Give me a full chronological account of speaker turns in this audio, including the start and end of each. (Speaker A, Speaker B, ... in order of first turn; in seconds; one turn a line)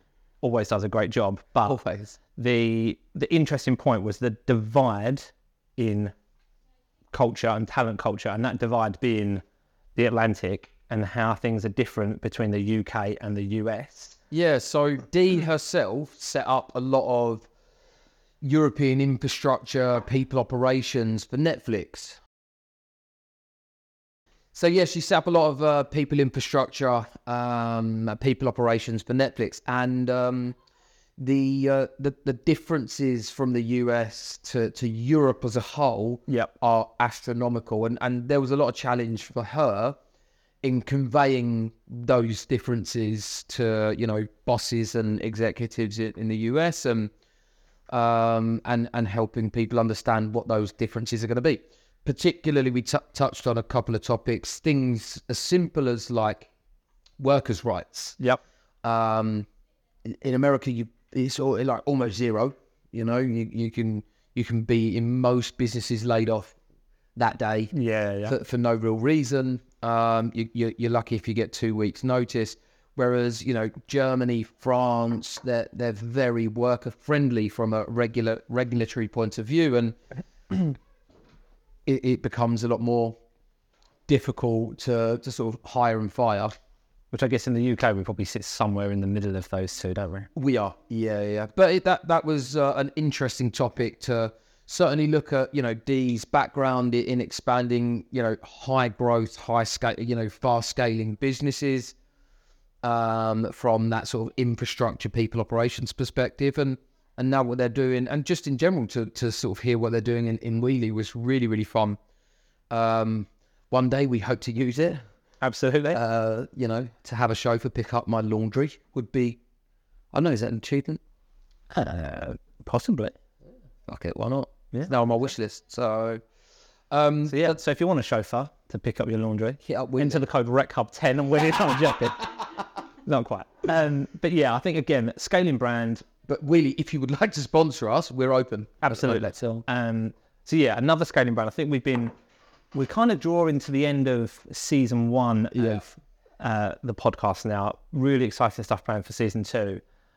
Speaker A: 0.4-1.8
Speaker B: 1.6-2.2
Speaker A: 2.4-6.1
Speaker A: 7.1-9.4
Speaker A: 10.0-14.2
Speaker B: 14.3-17.5
Speaker B: 18.4-22.2
Speaker B: 24.5-30.6
Speaker B: 31.2-40.0
Speaker B: 40.6-47.1
Speaker B: 47.9-56.5
Speaker B: 57.2-58.2
Speaker B: 58.8-59.5
Speaker B: 60.0-66.5
Speaker B: 67.2-80.0
Speaker A: 67.7-68.4
Speaker B: 81.9-83.2
Speaker B: 84.1-86.5
Speaker A: 87.1-90.3
Speaker B: 90.3-102.0
Speaker B: 102.8-112.0
Speaker B: 112.7-115.0
Speaker A: 115.4-116.0
Speaker B: 115.9-119.4
Speaker B: 120.1-121.0
Speaker A: 121.7-123.2
Speaker B: 123.9-126.2
Speaker B: 126.9-127.6
Speaker A: 127.3-136.0
Speaker B: 129.6-130.2
Speaker B: 136.3-139.7
Speaker A: 138.8-142.1
Speaker A: 142.7-149.8
Speaker B: 145.6-145.8